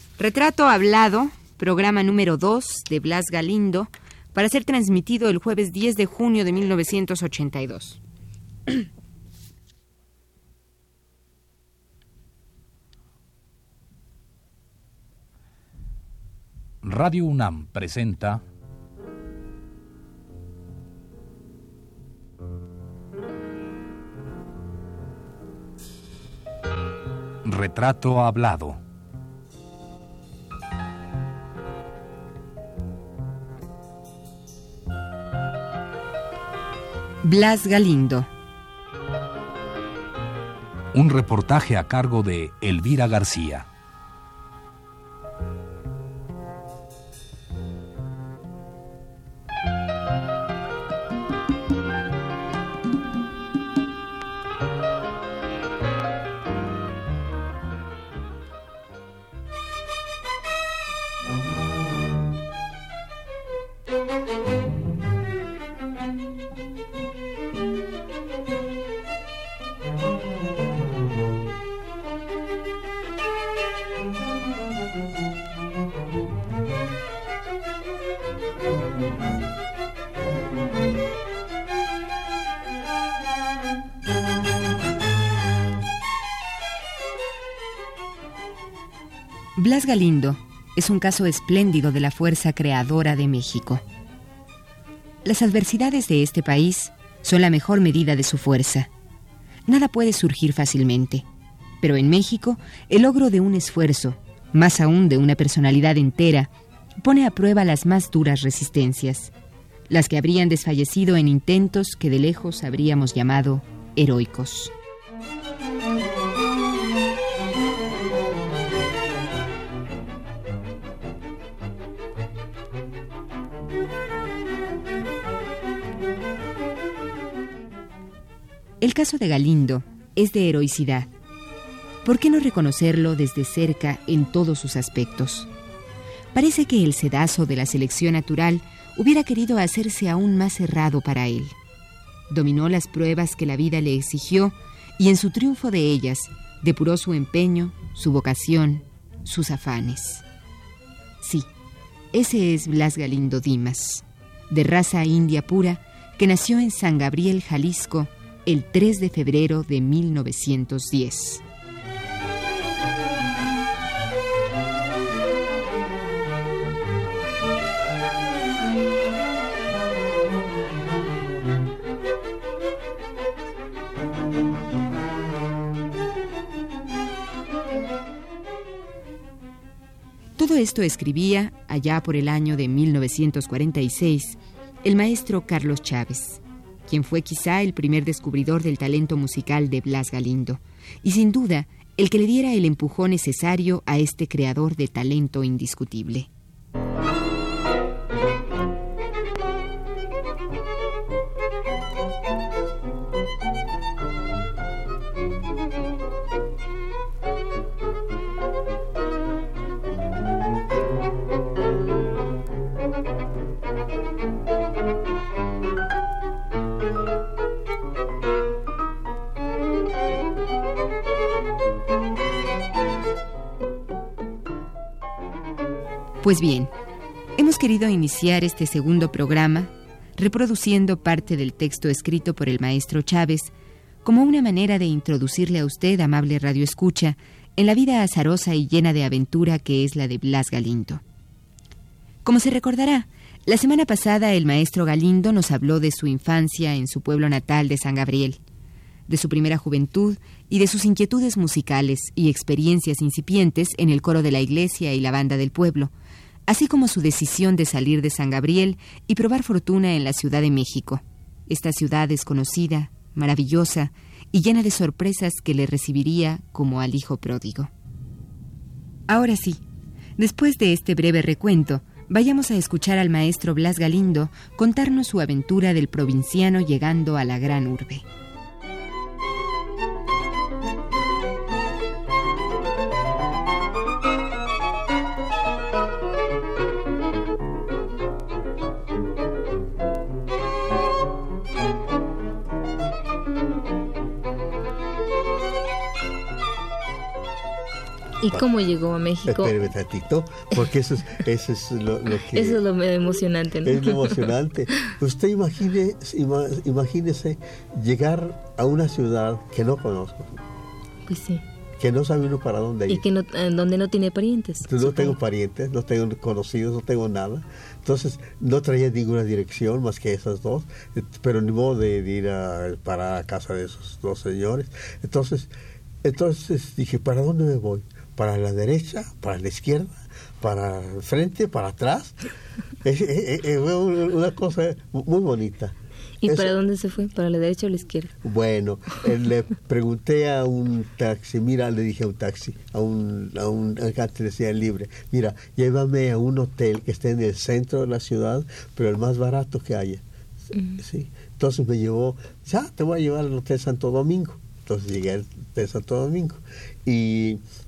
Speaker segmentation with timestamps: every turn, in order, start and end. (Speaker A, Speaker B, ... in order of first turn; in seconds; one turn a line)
Speaker A: 0.2-8.0
Speaker B: 16.8-18.4
Speaker B: 27.4-28.8
Speaker A: 37.2-38.3
Speaker B: 40.9-43.7
Speaker A: 89.6-93.8
Speaker A: 95.2-98.9
Speaker A: 99.7-101.3
Speaker A: 101.8-109.3
Speaker A: 109.9-114.7
Speaker A: 128.8-131.1
Speaker A: 132.1-135.5
Speaker A: 136.3-141.6
Speaker A: 142.3-150.2
Speaker A: 151.2-151.5
Speaker A: 152.1-161.4
Speaker A: 180.4-196.3
Speaker A: 226.2-226.7
Speaker A: 227.4-233.5
Speaker A: 234.0-241.0
Speaker A: 242.2-248.4
Speaker A: 249.1-255.9
Speaker A: 256.5-267.7
Speaker A: 269.1-269.6
Speaker A: 270.2-278.1
Speaker C: 298.2-299.5
Speaker D: 299.3-302.6
Speaker C: 302.3-304.3
Speaker D: 303.6-310.4
Speaker C: 311.1-311.4
Speaker D: 311.8-313.0
Speaker C: 312.9-315.1
Speaker D: 314.7-325.5
Speaker D: 326.0-332.2
Speaker D: 332.8-336.5
Speaker C: 336.2-338.1
Speaker D: 338.2-350.0
Speaker C: 350.5-350.8
Speaker D: 350.8-357.4